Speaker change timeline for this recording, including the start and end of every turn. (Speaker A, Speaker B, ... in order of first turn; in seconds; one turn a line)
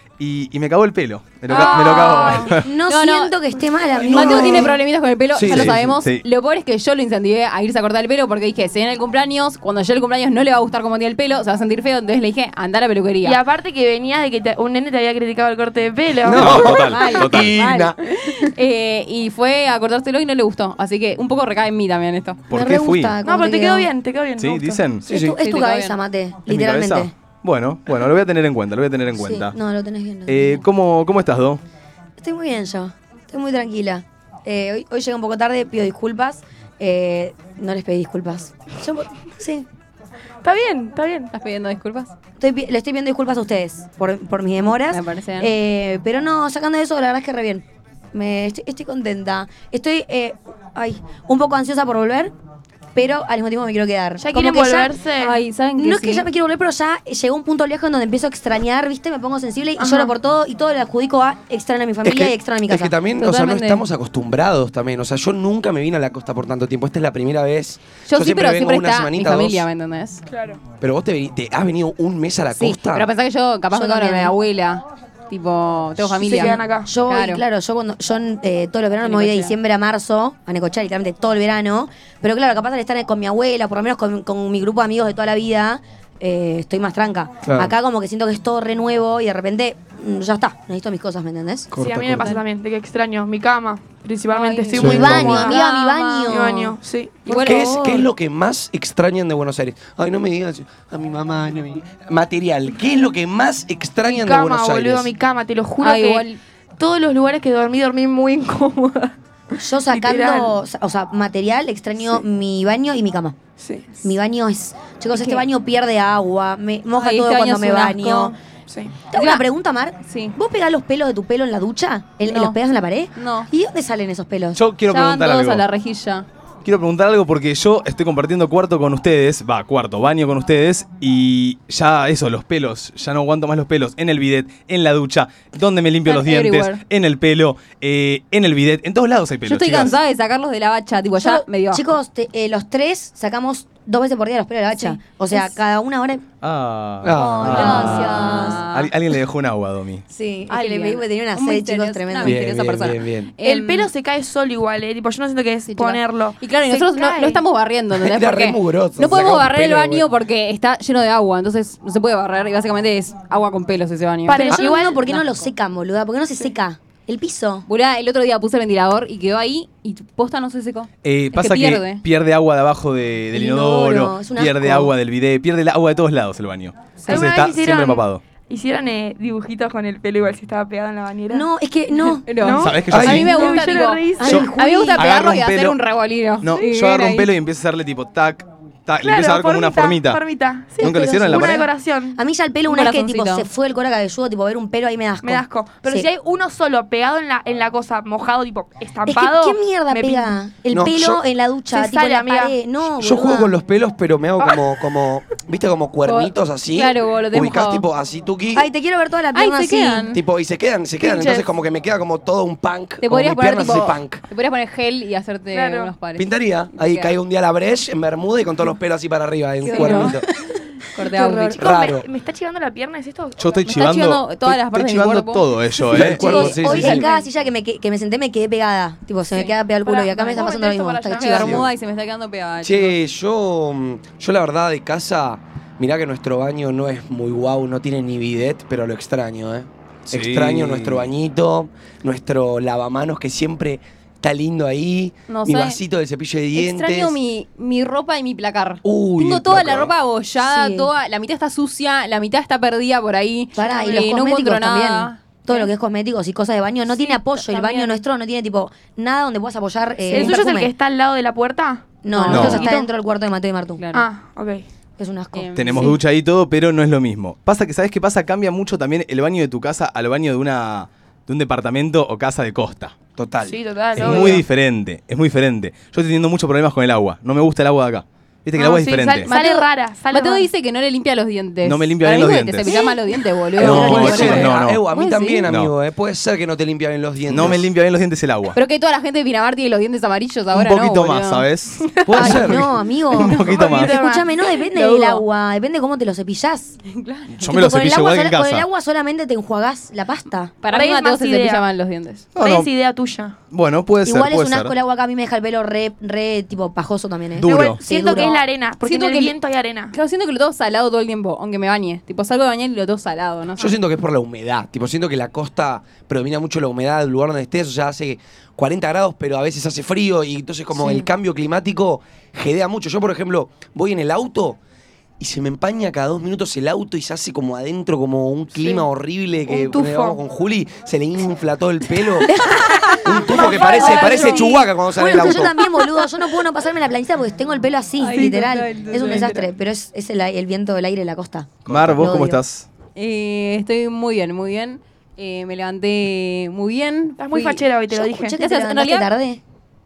Speaker A: 0.2-2.7
Speaker B: 1.5-3.4
Speaker C: 1.5-2.4
Speaker D: 1.6-4.7
Speaker E: 4.0-4.8
Speaker B: 4.0-13.4
Speaker E: 5.3-6.0
Speaker A: 5.5-6.2
Speaker C: 13.2-16.6
Speaker E: 16.2-17.9
Speaker A: 16.3-17.5
Speaker B: 16.6-22.4
Speaker D: 16.8-17.8
Speaker A: 22.5-23.1
Speaker D: 22.5-23.9
Speaker C: 23.2-24.8
Speaker A: 24.4-25.1
Speaker E: 25.1-25.4
Speaker D: 25.1-27.1
Speaker B: 25.4-26.0
Speaker A: 26.5-29.5
Speaker D: 29.1-30.6
Speaker A: 30.3-31.6
Speaker D: 32.2-39.6
Speaker C: 40.4-41.3
Speaker B: 41.3-42.1
Speaker D: 42.4-52.3
Speaker B: 44.7-45.5
Speaker D: 52.9-54.9
Speaker C: 54.2-55.4
Speaker B: 55.2-56.3
Speaker D: 55.8-62.9
Speaker C: 59.8-60.1
Speaker E: 62.0-69.7
Speaker B: 63.1-63.9
Speaker B: 68.0-70.2
Speaker C: 70.3-70.6
Speaker E: 70.8-73.1
Speaker B: 72.5-77.4
Speaker D: 73.7-74.3
Speaker D: 76.2-91.7
Speaker C: 76.2-76.9
Speaker B: 79.0-79.5
Speaker E: 87.4-87.7
Speaker E: 91.7-92.3
Speaker C: 91.7-95.6
Speaker B: 94.3-96.5
Speaker E: 94.8-95.4
Speaker D: 94.8-96.7
Speaker C: 96.3-97.5
Speaker B: 97.3-98.1
Speaker E: 97.4-105.1
Speaker C: 104.0-106.2
Speaker B: 105.8-106.4
Speaker C: 106.8-109.1
Speaker D: 109.6-113.3
Speaker C: 109.9-110.5
Speaker C: 113.6-113.9
Speaker D: 114.0-118.3
Speaker B: 115.1-115.5
Speaker B: 117.0-118.3
Speaker C: 118.7-118.9
Speaker D: 119.1-124.6
Speaker B: 119.1-119.4
Speaker B: 120.0-120.3
Speaker B: 122.2-122.6
Speaker B: 123.1-123.5
Speaker A: 124.5-125.6
Speaker B: 124.8-126.2
Speaker A: 126.6-140.0
Speaker B: 136.1-136.8
Speaker B: 139.4-141.8
Speaker D: 141.2-146.2
Speaker B: 144.7-145.5
Speaker A: 146.4-150.0
Speaker E: 147.0-148.0
Speaker D: 147.2-148.6
Speaker B: 147.2-148.9
Speaker D: 150.1-152.4
Speaker B: 150.4-153.9
Speaker E: 152.2-153.3
Speaker C: 153.4-157.4
Speaker B: 155.7-165.3
Speaker E: 157.9-160.1
Speaker C: 164.2-165.0
Speaker D: 164.3-167.6
Speaker B: 167.7-172.0
Speaker A: 171.0-178.2
Speaker D: 173.3-174.9
Speaker B: 177.0-177.3
Speaker C: 177.1-181.5
Speaker D: 181.3-182.3
Speaker B: 182.2-187.3
Speaker C: 182.4-184.5
Speaker A: 182.6-183.7
Speaker E: 182.9-183.3
Speaker D: 184.2-185.1
Speaker A: 184.9-185.8
Speaker A: 186.4-190.2
Speaker C: 189.0-192.2
Speaker A: 190.8-191.7
Speaker D: 190.8-196.1
Speaker B: 192.7-193.5
Speaker C: 195.2-200.4
Speaker D: 199.1-203.5
Speaker E: 200.7-201.2
Speaker C: 201.7-202.6
Speaker E: 203.0-208.7
Speaker B: 206.0-207.9
Speaker D: 208.5-210.1
Speaker B: 209.3-210.2
Speaker E: 210.1-214.2
Speaker C: 211.0-211.5
Speaker B: 213.0-217.1
Speaker C: 215.5-215.9
Speaker E: 216.1-220.2
Speaker B: 219.6-220.2
Speaker D: 219.6-220.2
Speaker B: 220.9-221.7
Speaker D: 221.0-221.6
Speaker E: 221.6-222.1
Speaker C: 221.6-223.8
Speaker A: 223.4-226.8
Speaker B: 223.7-225.5
Speaker E: 225.9-227.0
Speaker D: 226.1-231.7
Speaker B: 226.2-227.1
Speaker C: 229.3-231.6
Speaker B: 231.1-233.0
Speaker E: 231.4-231.7
Speaker E: 232.6-247.2
Speaker A: 240.1-241.1
Speaker B: 245.3-245.8
Speaker B: 246.5-255.5
Speaker E: 248.8-249.9
Speaker D: 250.4-250.9
Speaker D: 253.5-260.7
Speaker C: 257.1-258.0
Speaker B: 260.1-260.4
Speaker C: 260.1-261.9
Speaker D: 262.0-263.8
Speaker B: 262.1-262.9
Speaker A: 262.3-262.6
Speaker B: 263.8-264.1
Speaker C: 263.9-264.6
Speaker D: 265.0-266.0
Speaker B: 265.3-266.0
Speaker A: 265.5-272.9
Speaker E: 273.2-274.4
Speaker C: 273.4-274.4
Speaker A: 273.9-279.3
Speaker C: 278.6-280.5
Speaker B: 279.2-285.5
Speaker A: 281.6-282.8
Speaker C: 282.7-283.1
Speaker E: 283.6-287.6
Speaker A: 283.6-284.8
Speaker A: 285.5-285.7
Speaker A: 287.3-288.6
Speaker B: 288.5-291.5
Speaker A: 290.5-292.5
Speaker B: 292.1-292.6
Speaker E: 292.1-292.6
Speaker D: 292.2-296.8
Speaker A: 293.1-293.9
Speaker C: 293.2-294.4
Speaker B: 294.7-295.2
Speaker B: 296.9-297.5
Speaker A: 297.3-298.6
Speaker D: 297.4-300.5
Speaker B: 300.6-302.3
Speaker C: 300.7-301.6
Speaker A: 302.3-302.7
Speaker C: 302.4-303.4
Speaker A: 303.5-304.7
Speaker D: 304.0-308.4
Speaker A: 307.4-307.8
Speaker C: 307.4-309.9
Speaker B: 308.1-309.4
Speaker B: 309.9-313.8
Speaker E: 313.6-324.6
Speaker B: 320.8-321.1
Speaker E: 325.2-332.3
Speaker C: 328.6-328.9
Speaker C: 329.5-330.2
Speaker D: 332.3-342.4
Speaker C: 332.9-334.7
Speaker E: 333.0-335.5
Speaker B: 333.8-334.4
Speaker B: 338.0-339.3
Speaker C: 338.1-339.5
Speaker A: 341.6-342.7
Speaker B: 342.9-347.6
Speaker C: 347.2-348.3
Speaker D: 347.9-349.4
Speaker B: 348.4-349.1